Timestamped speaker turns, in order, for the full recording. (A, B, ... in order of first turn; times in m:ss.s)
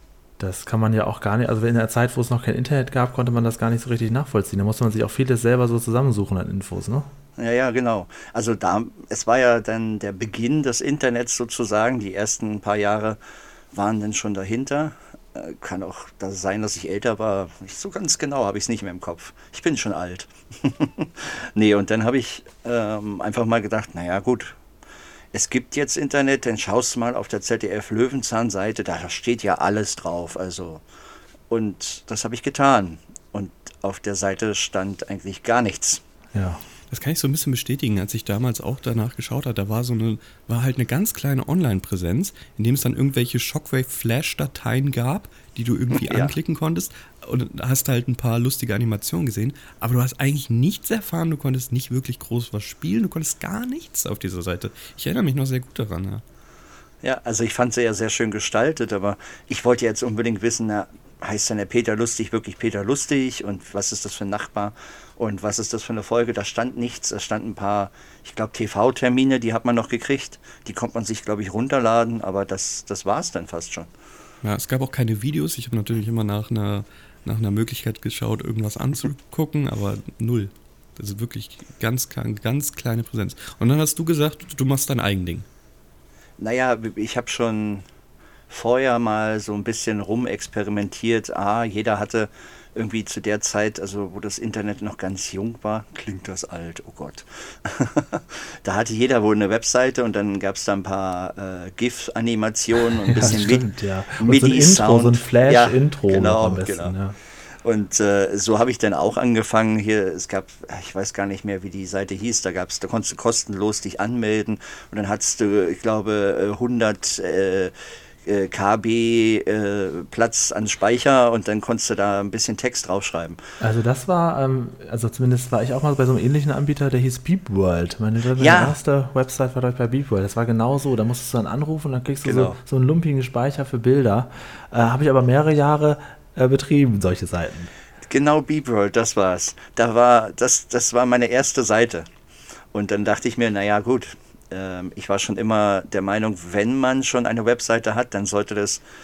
0:00.4-0:07.1 A
0:07.4-0:13.2 B
0:13.7-0:24.6 B
0:25.3-0:30.8 B
0:31.5-0:36.0 B
0:36.3-0:36.6 A
0:36.9-0:56.2 C
0:46.0-0:46.3 B
0:57.0-1:13.9 B
1:14.4-1:25.4 C
1:26.4-1:27.8 B
1:28.5-1:46.9 B
1:43.0-1:47.2 A
1:47.6-2:03.4 B
2:03.6-2:17.7 A
2:08.4-2:08.8 B
2:12.2-2:12.6 B
2:18.0-2:22.1 B
2:22.7-2:28.8 B